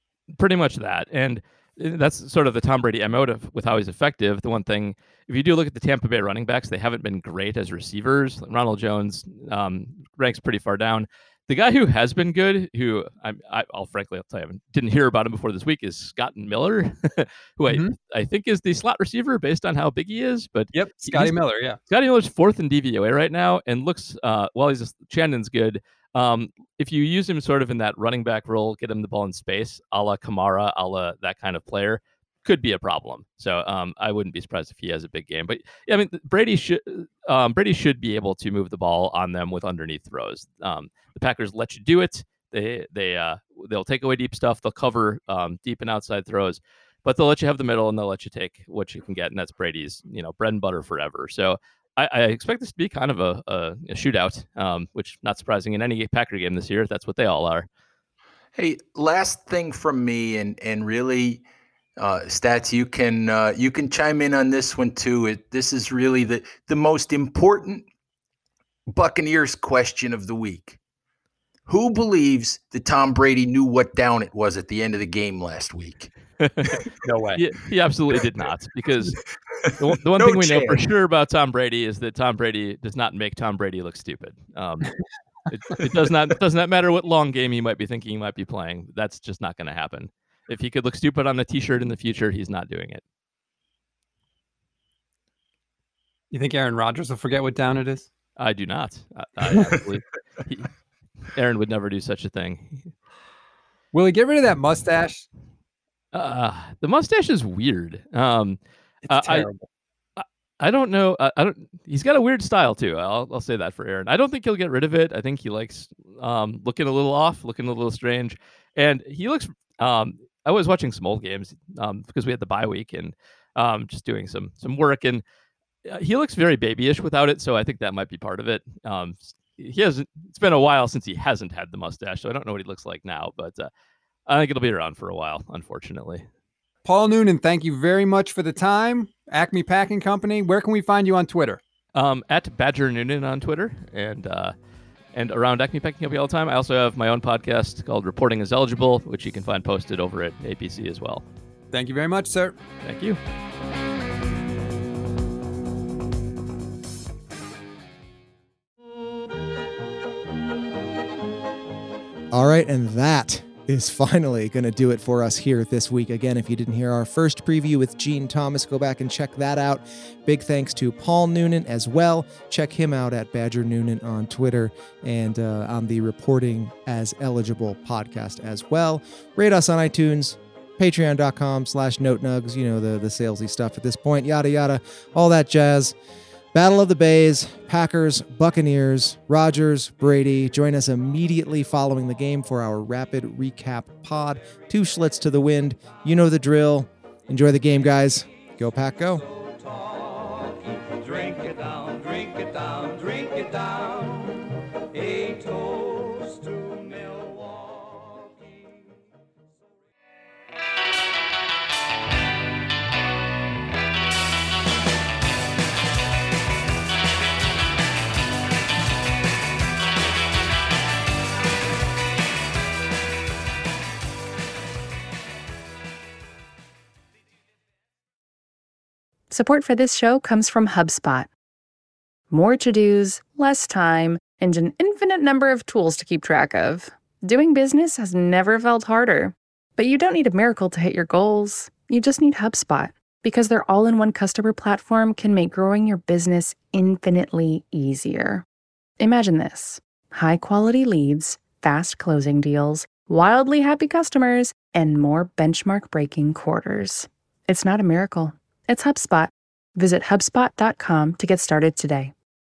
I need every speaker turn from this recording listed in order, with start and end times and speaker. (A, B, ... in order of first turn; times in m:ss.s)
0:00.3-0:21.3 A
0:17.7-0:17.9 B
0:20.7-0:21.8 B
0:21.9-0:57.7 A
0:58.5-1:01.4 C
1:02.0-1:07.8 C
1:08.9-1:10.8 C
1:11.7-1:16.1 C
1:16.4-1:16.7 A
1:17.0-1:17.4 B
1:17.3-1:19.2 A
1:19.6-1:20.8 C
1:19.8-1:24.9 A
1:25.5-1:33.0 A
1:36.3-1:38.1 B
1:38.4-1:40.7 A
1:41.3-1:42.9 A
1:43.9-1:45.3 B
1:46.1-1:49.5 A
1:49.1-1:49.6 B
1:50.2-2:05.2 A
2:05.8-2:13.7 A
2:14.3-2:16.2 A
2:16.8-2:21.6 B
2:21.9-2:24.5 A
2:25.1-2:31.2 A
2:31.7-2:32.6 B
2:32.8-2:33.2 A
2:42.3-3:05.9 D
3:06.5-3:19.2 D
3:49.3-3:51.3 E
3:52.3-4:08.4 E
4:09.0-4:22.1 E